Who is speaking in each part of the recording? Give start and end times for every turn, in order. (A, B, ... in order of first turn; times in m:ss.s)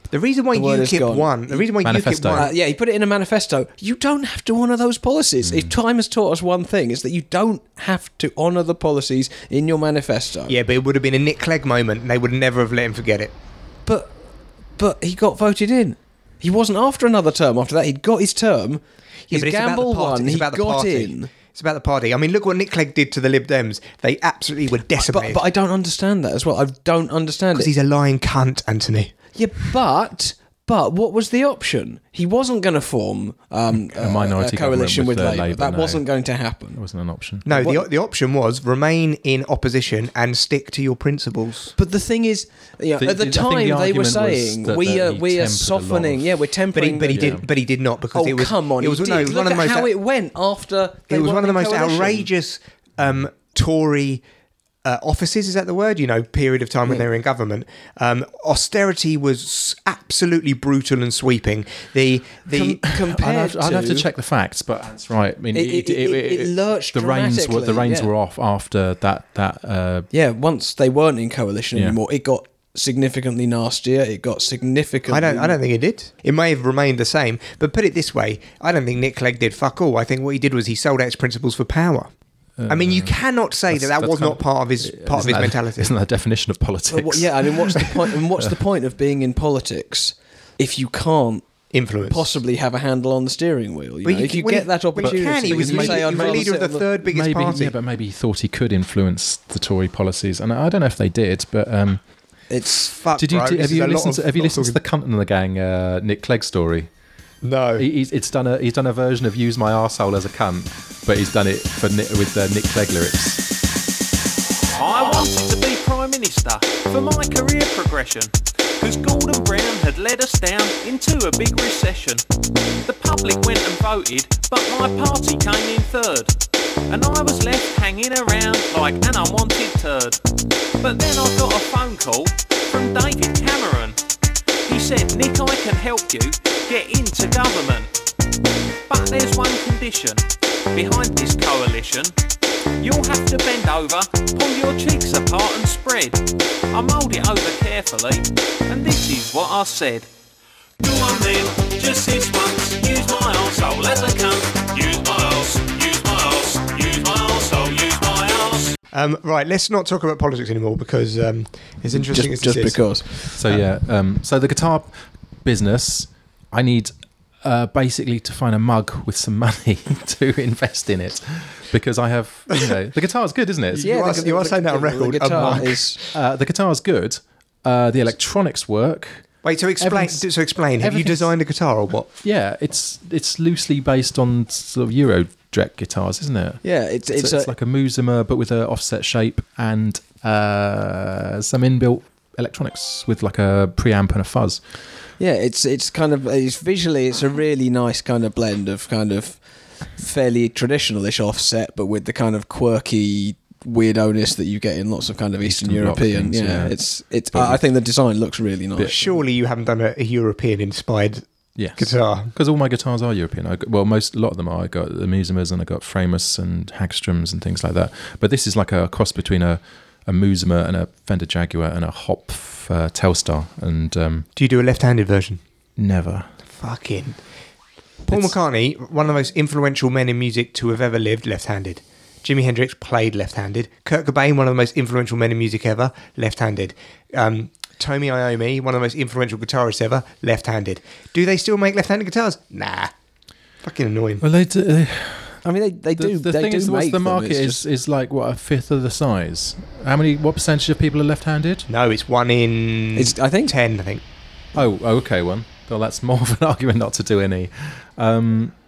0:00.1-0:02.5 A
0:00.5-0:01.7 B
0:01.8-0:02.4 C
0:02.3-0:10.5 B
0:05.4-0:05.7 C
0:10.5-0:13.3 A
0:13.9-0:14.1 B
0:14.8-0:21.3 B
0:19.3-0:25.4 A
0:25.0-0:27.7 B
0:27.5-0:29.1 A
0:29.4-0:36.8 B
0:33.8-0:36.0 C
0:36.7-0:37.5 C
0:37.5-0:41.7 A
0:37.6-0:37.8 B
0:41.8-0:47.4 B
0:43.0-0:46.3 C
0:46.7-0:49.9 A
0:47.1-0:47.4 C
0:48.1-0:52.3 B
0:51.1-0:54.2 A
0:54.8-1:02.8 A
1:02.5-1:04.1 B
1:02.9-1:10.1 C
1:05.5-1:08.1 B
1:10.1-1:15.6 B
1:15.1-1:22.1 A
1:22.6-1:23.2 C
1:22.7-1:25.9 A
1:23.7-1:28.5 C
1:26.9-1:31.5 B
1:31.7-1:32.4 A
1:32.1-1:36.8 B
1:34.0-1:37.7 A
1:35.0-1:42.0 C
1:42.5-1:42.9 B
1:42.9-1:44.8 A
1:43.2-1:46.9 C
1:47.4-1:47.9 A
1:47.8-1:53.5 C
1:54.8-2:02.2 D
2:02.9-2:06.4 D
2:06.9-2:10.2 D
2:10.8-2:14.0 D
2:14.7-2:17.9 D
2:18.9-2:22.2 D
2:22.8-2:30.1 D
2:30.8-2:38.7 D
2:38.9-2:42.8 A
2:41.9-2:43.5 B
2:43.4-2:54.0 C
2:53.7-2:56.0 A
2:53.8-2:56.0 B
2:55.4-2:59.2 C
2:59.4-3:02.1 A
2:59.8-3:00.3 C
3:00.8-3:01.3 C
3:02.2-3:06.6 C
3:06.6-3:07.5 B
3:07.2-3:14.6 C
3:15.2-3:19.4 B
3:20.0-3:29.0 B
3:25.4-3:26.8 C
3:27.3-3:27.6 C
3:28.8-3:31.3 A
3:31.6-3:44.3 C
3:31.8-3:32.3 A
3:44.4-3:45.4 A
3:45.8-3:46.3 C
3:46.5-3:47.2 A
3:48.1-4:02.9 A
3:48.1-3:48.4 C
4:03.6-4:04.2 A
4:04.2-4:05.4 C
4:05.4-4:07.6 B
4:06.0-4:11.7 C
4:11.7-4:14.0 A
4:13.0-4:13.5 B
4:14.5-4:18.5 C